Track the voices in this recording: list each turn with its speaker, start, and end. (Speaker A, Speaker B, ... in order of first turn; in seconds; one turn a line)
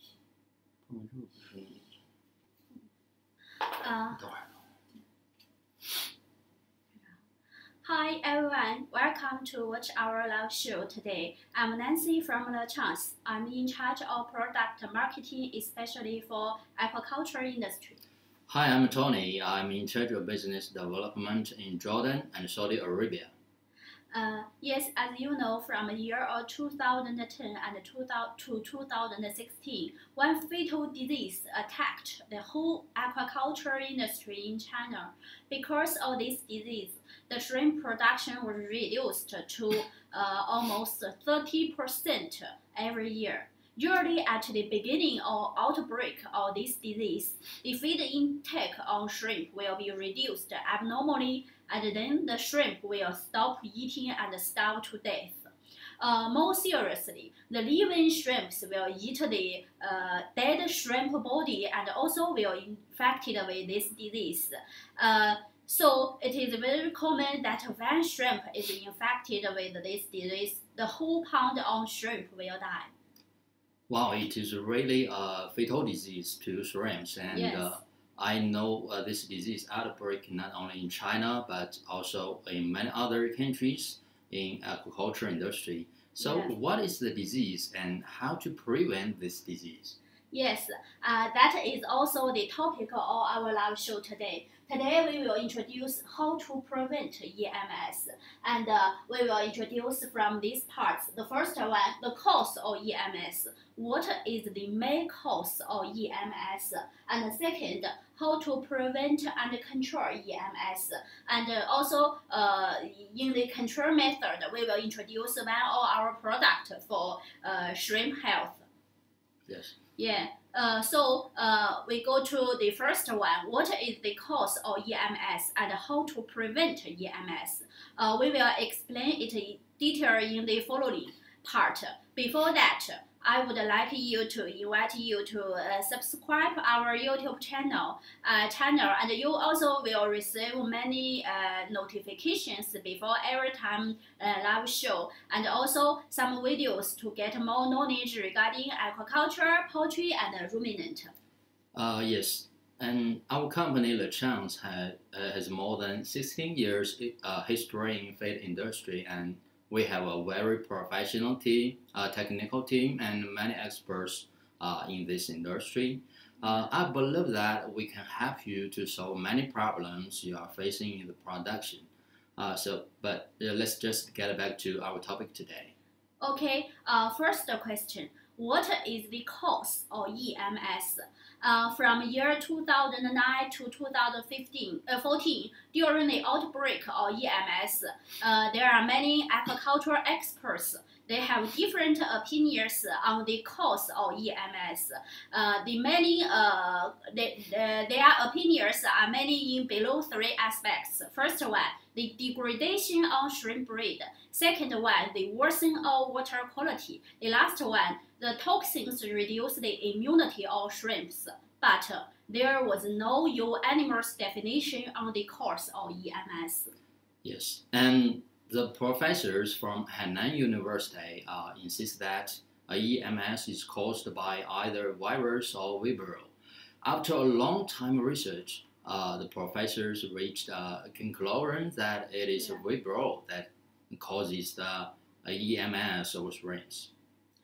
Speaker A: 0.9-1.8
Speaker B: 3.6-4.3
Speaker A: 4.1-4.5
Speaker B: 7.8-18.0
Speaker A: 18.5-23.3
Speaker B: 24.1-72.9
Speaker A: 73.9-90.0
Speaker B: 77.3-77.8
Speaker B: 86.2-86.5
Speaker B: 90.3-118.7
Speaker A: 119.5-119.7
Speaker B: 120.0-151.1
Speaker A: 151.7-175.7
Speaker B: 166.4-166.7
Speaker B: 176.2-216.7
Speaker A: 217.2-236.9
Speaker B: 232.3-232.6